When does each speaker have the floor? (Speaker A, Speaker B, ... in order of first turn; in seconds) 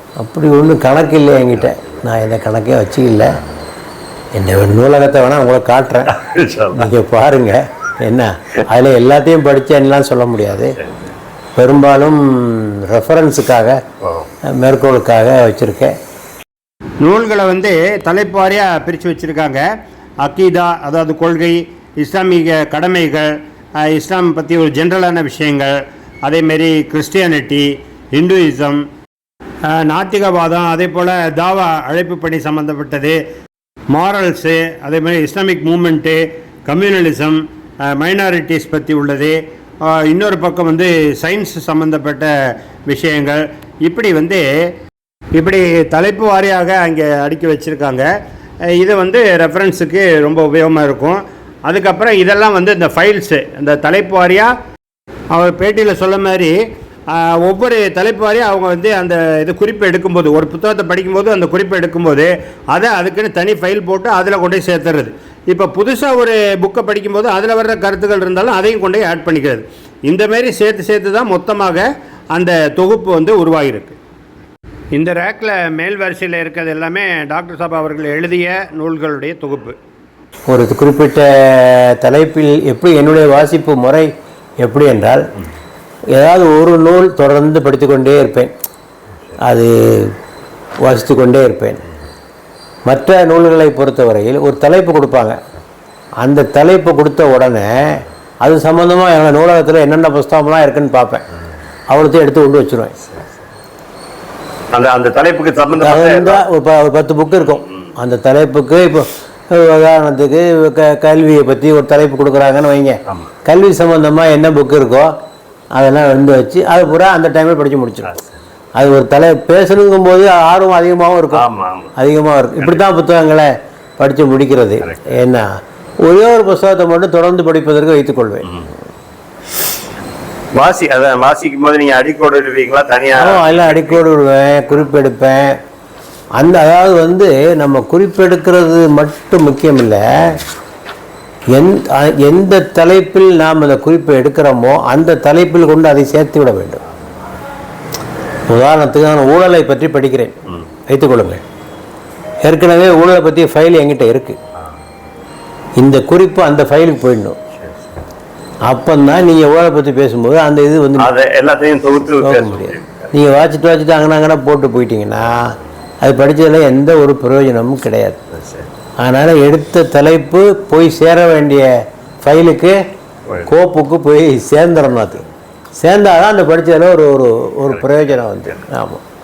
Speaker A: 0.2-3.3, 4.3-6.1, 6.8-10.8, 11.6-13.8, 14.6-15.9, 80.5-84.1, 84.6-85.2, 86.1-88.5, 89.4-90.1, 90.8-91.8, 92.9-95.4, 96.2-101.2, 101.9-103.0, 105.8-115.1, 115.8-118.1, 118.8-121.5, 122.0-125.5, 126.0-128.5, 133.2-135.6, 136.4-140.4, 141.5-146.8, 148.5-150.3, 150.9-151.4, 152.4-154.4, 155.8-157.4, 158.7-161.1, 162.2-165.5, 166.0-168.2, 169.0-171.7, 172.2-172.8, 173.5-175.2, 175.8-179.0
Speaker B: 1.6-2.0, 6.1-6.9, 10.8-11.0, 14.0-14.3, 104.7-106.4, 107.5-107.9, 121.3-121.9, 124.8-125.2, 130.6-134.0, 157.6-157.9, 161.0-163.1, 168.3-168.7, 177.7-178.6
Speaker C: 17.0-19.6, 20.2-28.8, 29.7-33.2, 33.9-42.3, 42.9-44.7, 45.4-48.1, 48.7-54.5, 55.3-56.6, 57.1-74.0, 75.0-79.8